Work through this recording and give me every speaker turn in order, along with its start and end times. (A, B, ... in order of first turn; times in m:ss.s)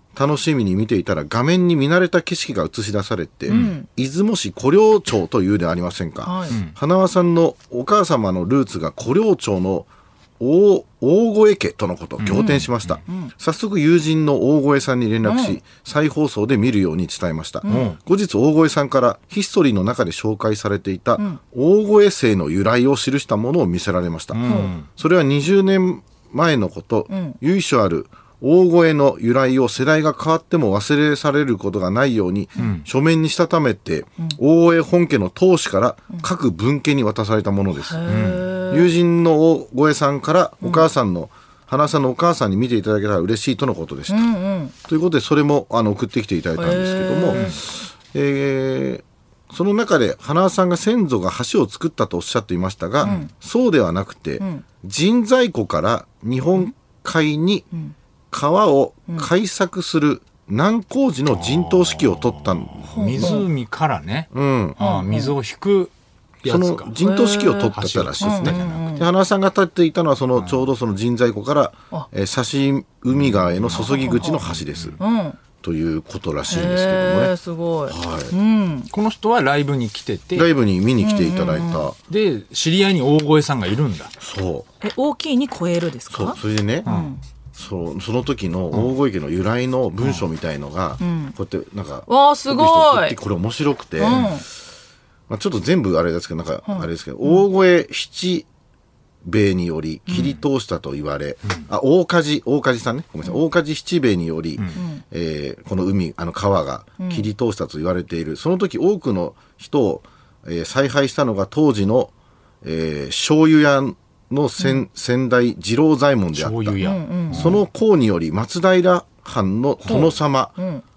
0:00.2-0:09.9 A
0:03.5-0:03.9 B
0:03.5-0:03.8 C
0:06.2-0:06.6 B
0:10.4-0:38.1 A
0:12.2-0:13.0 C
0:12.3-0:13.3 B
0:15.2-0:15.6 B
0:17.6-0:18.0 B
0:17.7-0:18.0 C
0:24.3-0:24.9 C
0:24.4-0:24.7 B
0:27.1-0:27.4 B
0:32.6-0:32.9 C
0:37.8-0:38.9 B
0:38.1-0:38.4 C
0:38.7-0:44.3 A
0:44.1-0:44.7 B
0:44.8-0:57.7 A
0:46.6-0:47.5 B
0:47.3-0:47.6 C
0:53.0-0:53.3 B
0:53.0-0:53.3 C
0:54.4-0:54.6 B
0:58.3-1:03.4 A
1:01.3-1:06.9 C
1:02.9-1:03.5 B
1:04.3-1:04.8 A
1:04.8-1:05.3 B
1:06.4-1:15.0 A
1:07.0-1:09.1 B
1:07.7-1:08.8 C
1:10.4-1:10.7 C
1:13.1-1:15.0 C
1:13.7-1:14.4 B
1:15.0-1:15.4 B
1:15.6-1:17.3 A
1:16.5-1:18.9 B
1:17.9-1:18.3 A
1:18.9-1:20.5 C
1:20.4-1:22.0 A
1:21.0-1:21.9 B
1:22.1-1:24.1 C
1:24.2-1:24.7 A
1:24.8-1:27.2 B
1:26.1-1:26.9 A
1:26.9-1:27.1 C
1:27.5-1:34.4 A
1:31.0-1:31.4 B
1:32.1-1:33.2 B
1:34.0-1:34.4 B
1:35.3-1:38.5 A
1:36.6-1:37.4 B
1:39.2-1:56.8 A
1:40.1-1:40.4 C
1:44.8-1:45.0 B
1:47.0-1:47.3 B
1:56.3-1:57.6 C
1:56.8-1:57.6 B
1:57.3-2:00.6 A
1:59.8-2:00.8 B